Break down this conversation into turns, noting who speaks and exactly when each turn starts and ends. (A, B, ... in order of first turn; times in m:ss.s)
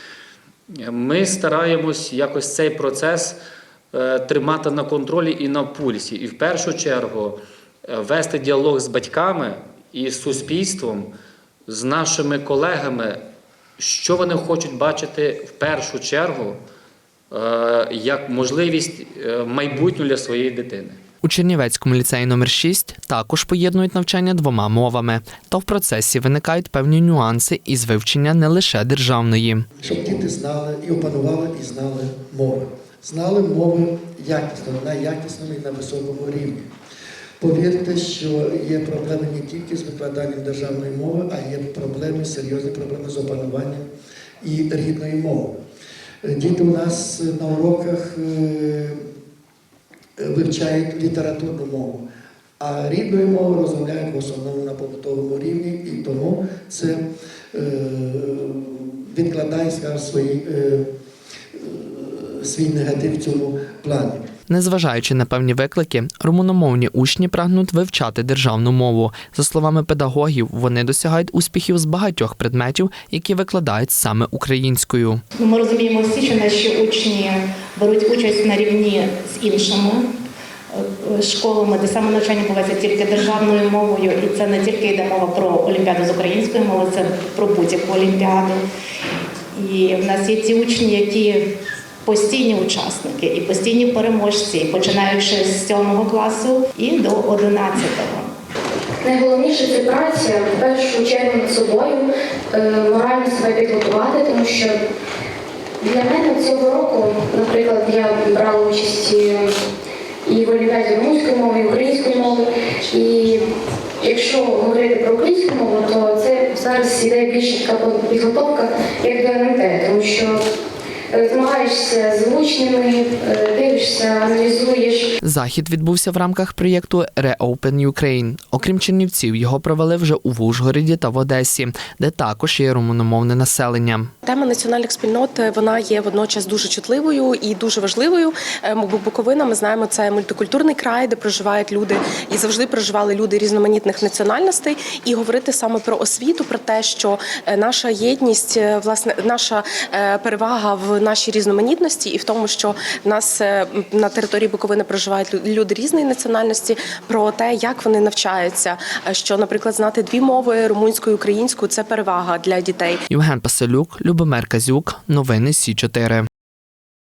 0:00.8-0:03.4 A
0:03.9-0:11.1 A
0:11.7-0:13.2 A
0:13.8-0:16.6 A
0:17.3-0:21.0 A
0:21.2-0:29.6 B
0:29.8-0:36.7 C
0:37.4-0:43.9 C
0:44.4-0:45.5 C
0:46.2-0:49.0 C
0:50.2-0:52.0 C
0:52.6-0:57.0 C
0:57.5-1:00.9 C
1:01.5-1:04.2 C
1:04.5-1:15.2 B
1:15.4-1:20.0 D
1:21.2-1:28.6 D
1:29.6-1:31.4 D
1:32.0-1:38.3 D
1:39.0-1:44.8 E
1:45.8-1:49.5 E
1:50.2-1:53.5 E
1:54.0-2:00.4 E
2:01.1-2:05.1 E
2:05.2-2:14.1 B
2:14.2-2:43.0 F
2:43.1-2:46.3 B